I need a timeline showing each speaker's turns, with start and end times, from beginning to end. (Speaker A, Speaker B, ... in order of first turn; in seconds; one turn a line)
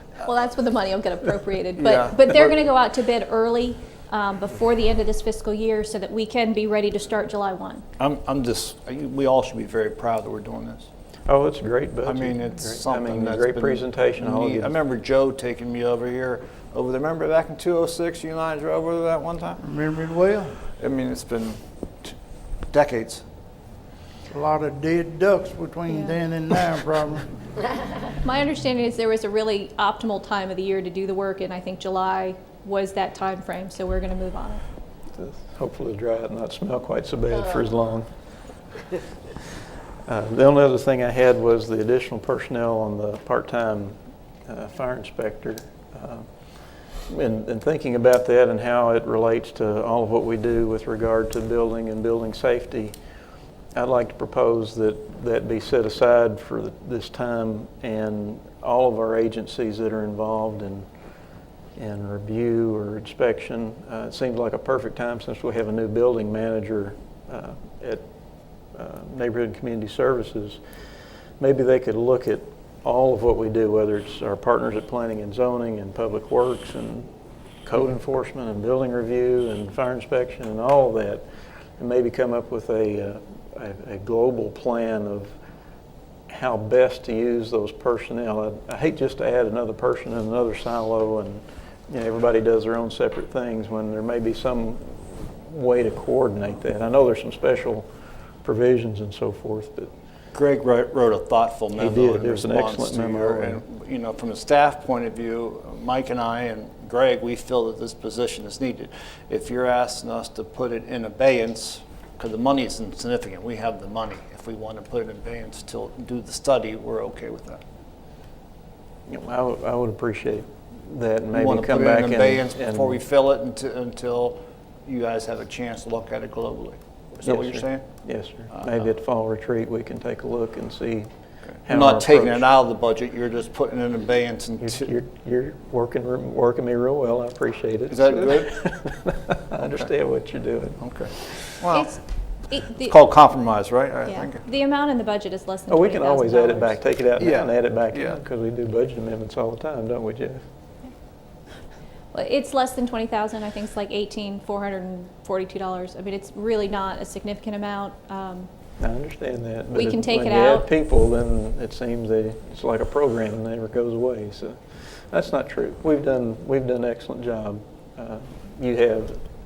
Speaker A: 0.2-7.8
Speaker B: 1.8-2.5
Speaker B: 8.0-10.9
Speaker C: 11.3-14.7
Speaker B: 12.1-19.7
Speaker D: 19.6-20.6
Speaker B: 20.8-22.2
Speaker B: 22.7-23.2
Speaker D: 24.3-27.3
Speaker A: 25.9-26.1
Speaker A: 28.2-34.6
Speaker C: 35.1-38.1
Speaker C: 40.1-46.3
Speaker C: 47.1-53.0
Speaker C: 53.7-60.9
Speaker C: 61.8-68.1
Speaker C: 68.8-70.6
Speaker C: 71.4-77.1
Speaker C: 77.7-81.2
Speaker C: 81.8-85.3
Speaker C: 86.3-97.9
Speaker C: 98.4-99.9
Speaker B: 100.3-117.6
Speaker C: 101.8-103.6
Speaker C: 119.1-123.0
Speaker B: 121.3-127.9
Speaker C: 127.2-131.1
Speaker B: 128.5-128.8
Speaker C: 131.6-132.5
Speaker B: 131.7-134.9
Speaker C: 134.6-141.6
Speaker B: 137.9-138.6
Speaker B: 139.6-139.9
Speaker B: 140.8-141.9
Speaker A: 141.7-143.0
Speaker B: 142.8-144.4
Speaker A: 144.1-146.8
Speaker C: 145.7-150.4
Speaker B: 147.2-148.2
Speaker A: 152.1-158.5
Speaker C: 158.8-169.3
Speaker A: 159.7-160.7